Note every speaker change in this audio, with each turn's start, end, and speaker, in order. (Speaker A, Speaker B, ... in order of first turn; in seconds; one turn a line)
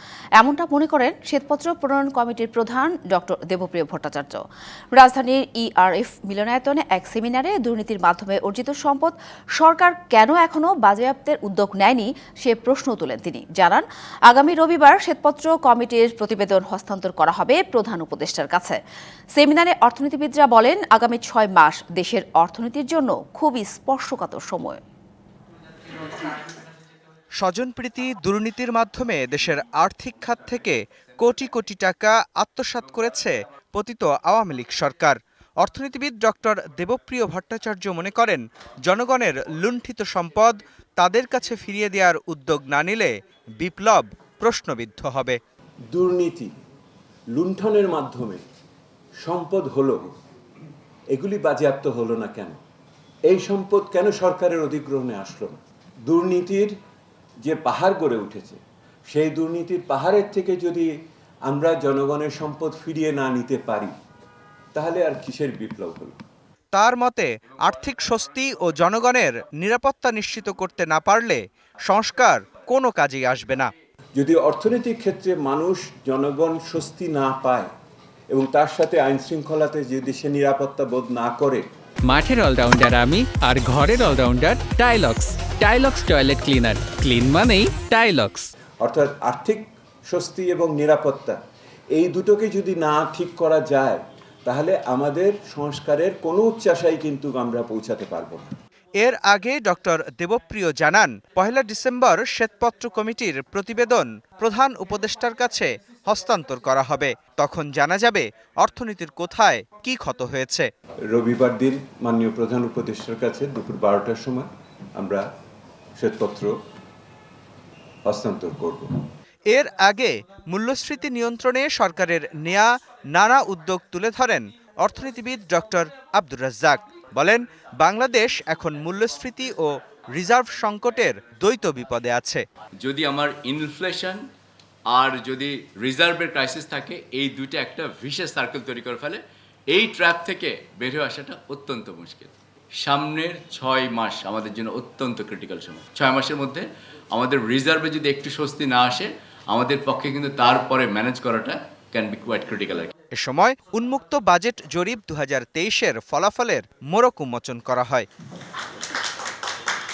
Speaker A: 0.4-4.4
Speaker A: 4.9-18.8
Speaker A: 19.3-24.8
Speaker B: 27.4-45.4
Speaker C: 45.9-46.5
Speaker C: 47.3-48.4
Speaker C: 49.2-50.1
Speaker C: 51.1-52.6
Speaker C: 53.3-56.7
Speaker C: 57.4-60.9
Speaker C: 61.5-63.9
Speaker C: 64.7-66.2
Speaker B: 66.7-73.7
Speaker C: 74.1-77.7
Speaker C: 78.3-81.6
Speaker D: 82.0-88.5
Speaker C: 88.8-91.4
Speaker C: 91.9-98.5
Speaker B: 99.0-110.7
Speaker C: 111.1-115.2
Speaker C: 116.0-116.5
Speaker C: 118.0-118.9
Speaker B: 119.5-132.4
Speaker E: 132.8-134.2
Speaker E: 134.9-152.9
Speaker B: 153.2-158.1